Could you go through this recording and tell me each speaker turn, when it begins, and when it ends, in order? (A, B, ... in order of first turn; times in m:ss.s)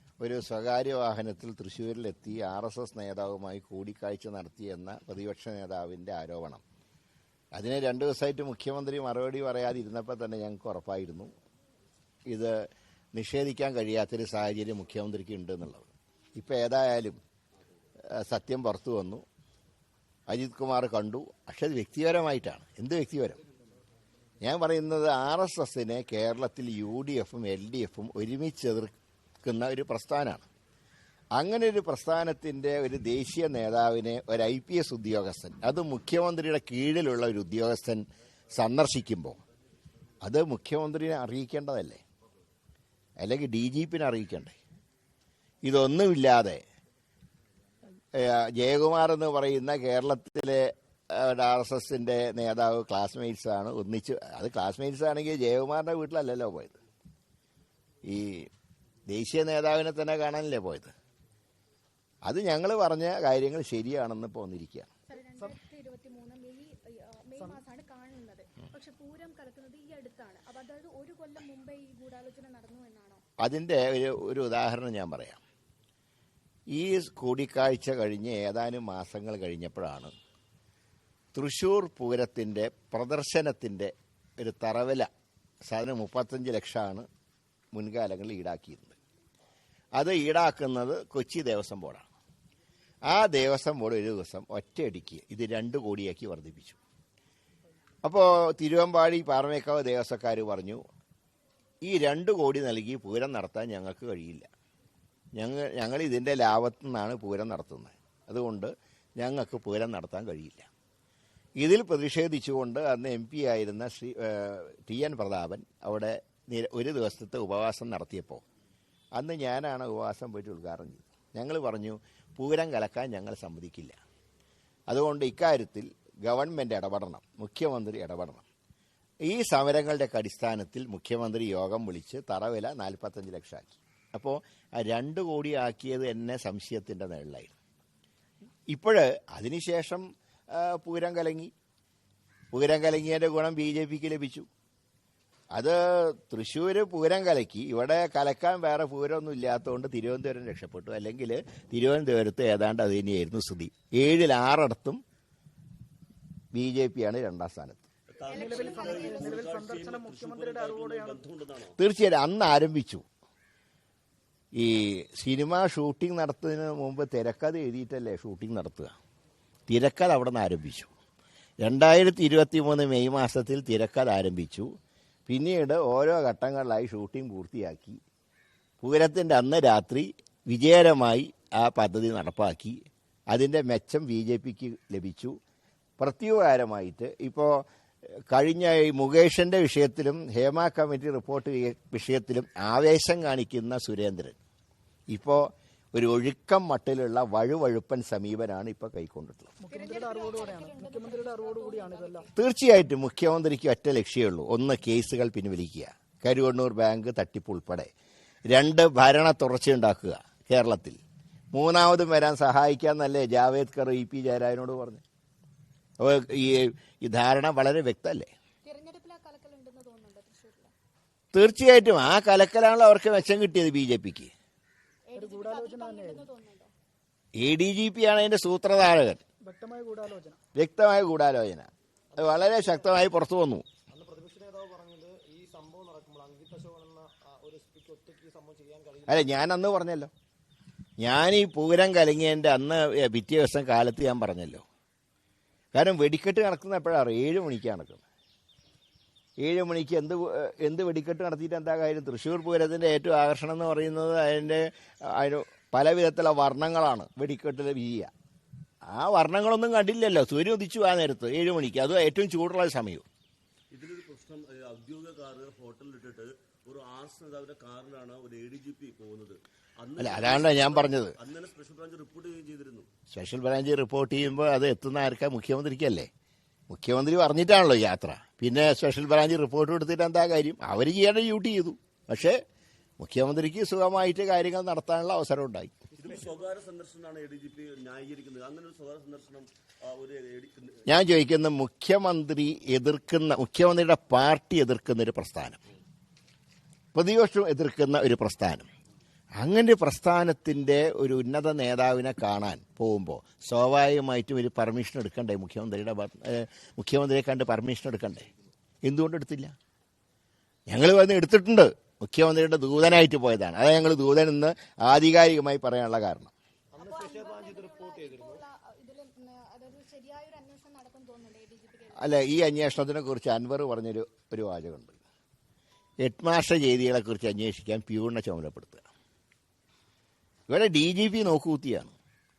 0:00.2-0:06.6 A
0:07.5-0:11.3 A
0:12.3-0:12.6 A
0:13.1-0:17.2 A
0:18.1-0:19.2 A
0:20.3-0:23.4 A
0:24.4-0:28.9 A
0:29.4-0:30.5 A
0:31.4-0:39.4 A
0:40.2-0:42.0 A
0:43.2-0:44.6 A
0:45.7-0:46.6 A
0:48.1-0:56.8 A
0:58.0-0:58.5 A
0:59.1-1:00.9 A
1:02.2-1:04.9 A
1:05.1-1:13.2 B
1:07.4-1:07.6 C
1:13.4-1:15.4 A
1:16.7-1:20.1 A
1:21.3-1:25.1 A
1:25.7-1:27.1 A
1:27.7-1:29.0 A
1:30.0-1:32.1 A
1:33.1-1:36.8 A
1:38.0-1:40.8 A
1:41.8-1:44.5 A
1:45.4-1:50.7 A
1:51.6-1:58.4 A
1:59.2-2:04.0 A
2:04.9-2:08.5 A
2:09.3-2:17.6 A
2:18.7-2:21.5 A
2:22.5-2:24.5 A
2:25.5-2:35.0 A
2:36.5-2:37.9 A
2:38.1-2:41.8 D
2:38.3-2:39.4 B
2:38.4-2:41.2 C
2:41.8-2:43.0 A
2:44.6-2:49.0 A
2:49.7-2:50.9 A
2:51.6-2:54.7 A
2:55.3-2:58.0 A
2:58.8-3:05.4 A
3:06.0-3:14.4 A
3:15.1-3:19.5 A
3:19.6-3:22.3 C
3:19.7-3:22.4 B
3:22.4-3:27.9 A
3:28.5-3:31.0 A
3:31.5-3:35.0 A
3:36.0-3:38.3 A
3:38.7-3:40.7 B
3:41.3-3:44.3 A
3:45.1-3:46.7 B
3:45.2-3:46.3 C
3:47.4-3:49.2 A
3:49.4-3:50.4 C
3:50.5-3:53.7 A
3:52.1-3:53.1 E
3:53.9-3:59.6 E
3:59.1-4:00.1 A
4:01.0-4:04.6 A
4:05.7-4:08.0 A
4:09.4-4:18.1 A
4:18.9-4:23.1 A
4:23.7-4:32.9 D
4:30.0-4:31.2 A
4:33.1-4:36.1 A
4:36.7-4:42.4 A
4:43.0-4:45.8 A
4:45.9-4:50.9 D
4:50.9-4:55.6 A
4:56.9-4:58.7 A
4:59.4-5:08.3 A
5:08.8-5:09.6 A
5:10.7-5:16.3 A
5:16.7-5:18.4 E
5:16.8-5:22.3 B
5:22.0-5:25.0 A
5:26.0-5:28.9 A
5:30.5-5:32.0 A